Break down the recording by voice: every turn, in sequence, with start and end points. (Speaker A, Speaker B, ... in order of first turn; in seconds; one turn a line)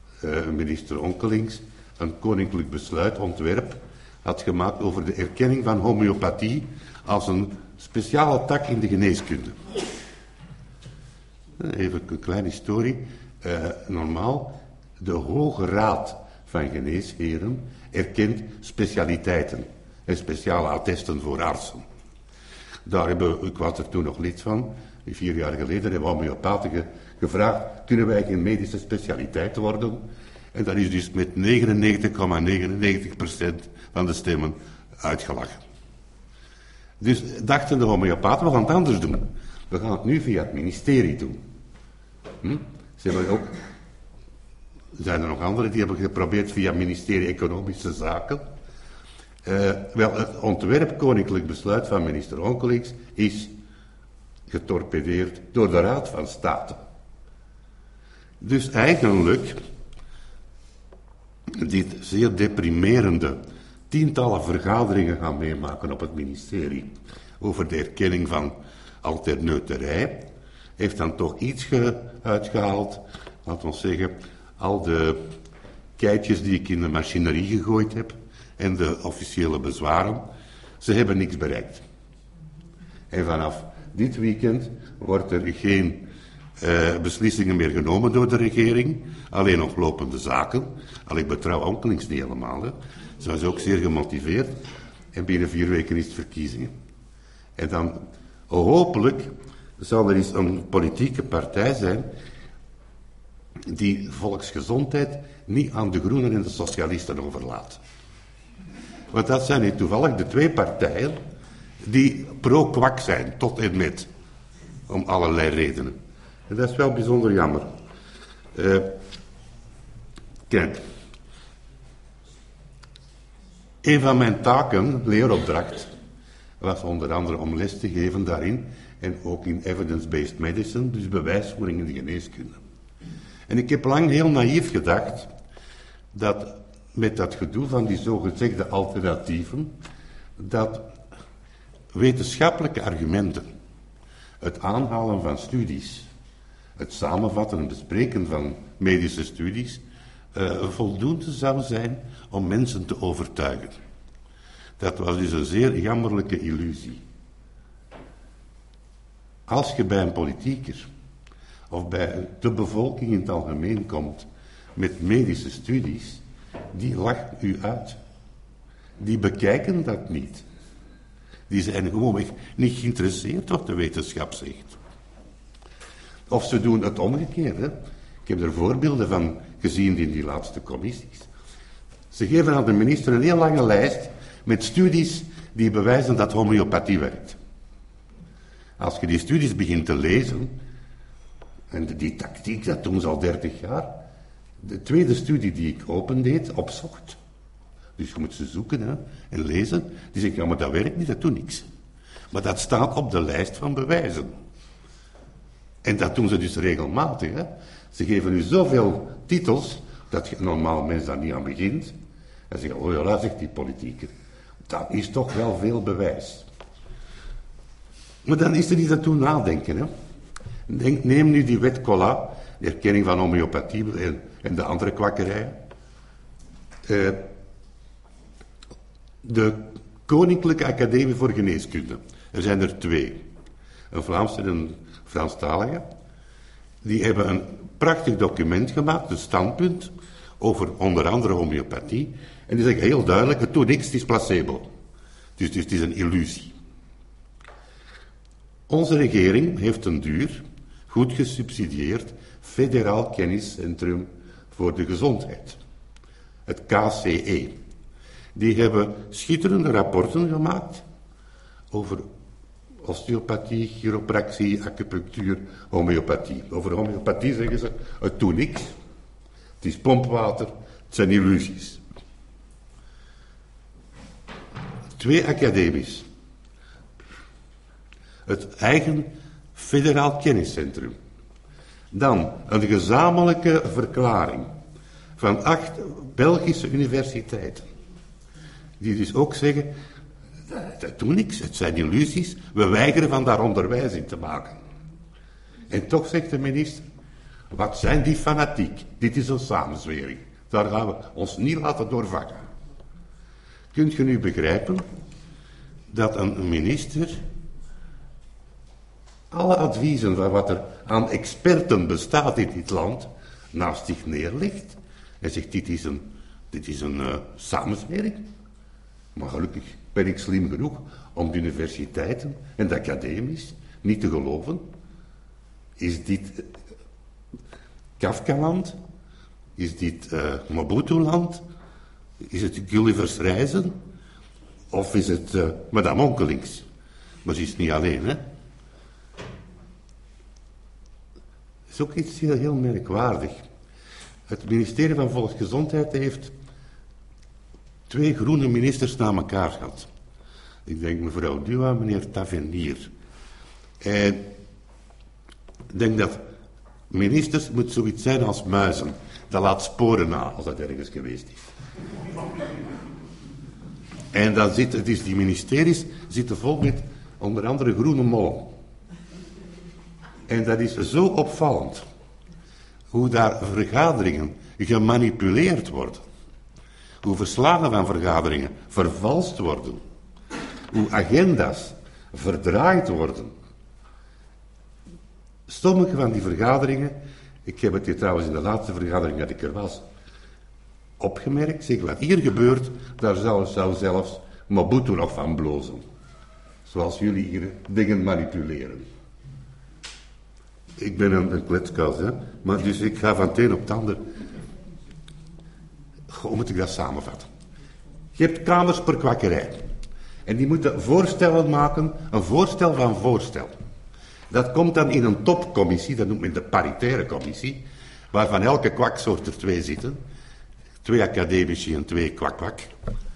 Speaker A: 0.2-9.6
Speaker A: 11.6-21.8
Speaker A: 22.9-30.0
Speaker A: 30.5-35.6
Speaker A: 37.0-41.4
Speaker A: 42.4-43.5
Speaker A: 45.0-48.4
Speaker A: 49.5-53.5
Speaker A: 54.5-56.8
Speaker A: 58.4-59.6
Speaker A: 61.5-63.4
Speaker A: 63.9-70.3
Speaker A: 70.8-75.2
Speaker A: 76.0-80.2
Speaker A: 80.8-81.8
Speaker A: 83.1-86.1
Speaker A: 86.6-94.5
Speaker A: 95.1-96.7
Speaker A: 97.6-102.1
Speaker A: 103.7-107.8
Speaker A: 109.1-111.2
Speaker A: 111.8-114.1
Speaker A: 114.9-116.0
Speaker A: 116.5-117.7
Speaker A: 118.5-118.9
Speaker A: 120.5-120.8
Speaker A: 123.8-125.9
Speaker A: 126.6-132.6
Speaker A: 133.5-135.3
Speaker A: 136.1-139.7
Speaker A: 140.4-140.9
Speaker A: 141.9-143.5
Speaker A: 144.4-146.1
Speaker A: 146.8-149.8
Speaker A: 150.3-153.8
Speaker A: 154.8-157.0
Speaker A: 159.5-160.9
Speaker A: 161.7-166.2
Speaker A: 166.7-168.0
Speaker A: 169.0-170.4
Speaker A: 171.5-174.8
Speaker A: 176.3-181.3
Speaker A: 182.1-187.4
Speaker A: 188.8-190.6
Speaker A: 191.7-193.9
Speaker A: 194.6-197.2
Speaker A: 198.0-201.7
Speaker A: 202.3-204.4
Speaker A: 205.8-211.9
Speaker A: 212.5-214.1
Speaker A: 214.7-216.5
Speaker A: 218.2-219.9
Speaker A: 220.7-225.6
Speaker A: 226.9-227.2
Speaker A: 229.2-233.2
Speaker A: 233.9-235.8
Speaker A: 236.8-244.7
Speaker A: 245.4-246.5
Speaker A: 248.7-255.6
Speaker A: 256.5-257.6
Speaker A: 258.4-260.8
Speaker A: 261.7-262.1
Speaker A: 262.8-268.7
Speaker A: 269.6-271.8
Speaker A: 275.0-276.1
Speaker A: 278.3-281.0
Speaker A: 281.9-284.5
Speaker A: 285.2-287.7
Speaker A: 288.8-289.7
Speaker A: 290.5-294.6
Speaker A: 295.7-296.8
Speaker A: 297.5-302.4
Speaker A: 303.7-304.9
Speaker A: 305.9-307.2
Speaker A: 309.3-318.2
Speaker A: 319.1-324.6
Speaker A: 325.8-326.5
Speaker A: 328.0-328.8
Speaker A: 329.6-331.4
Speaker A: 332.2-333.8
Speaker A: 334.7-336.6
Speaker A: 337.2-338.2
Speaker A: 341.7-343.4
Speaker A: 344.3-346.3
Speaker A: 347.9-349.9
Speaker A: 350.7-352.9
Speaker A: 353.8-354.3
Speaker A: 355.7-356.2
Speaker A: 356.9-361.4
Speaker A: 364.1-368.5
Speaker A: 370.3-371.9
Speaker A: 372.9-376.1
Speaker A: 377.0-379.8
Speaker A: 380.7-383.3
Speaker A: 385.5-389.9
Speaker A: 391.0-395.8
Speaker A: 396.7-398.9
Speaker A: 400.8-404.0
Speaker A: 406.1-407.3
Speaker A: 408.2-409.6
Speaker A: 410.3-413.5
Speaker A: 414.3-420.0
Speaker A: 420.8-422.7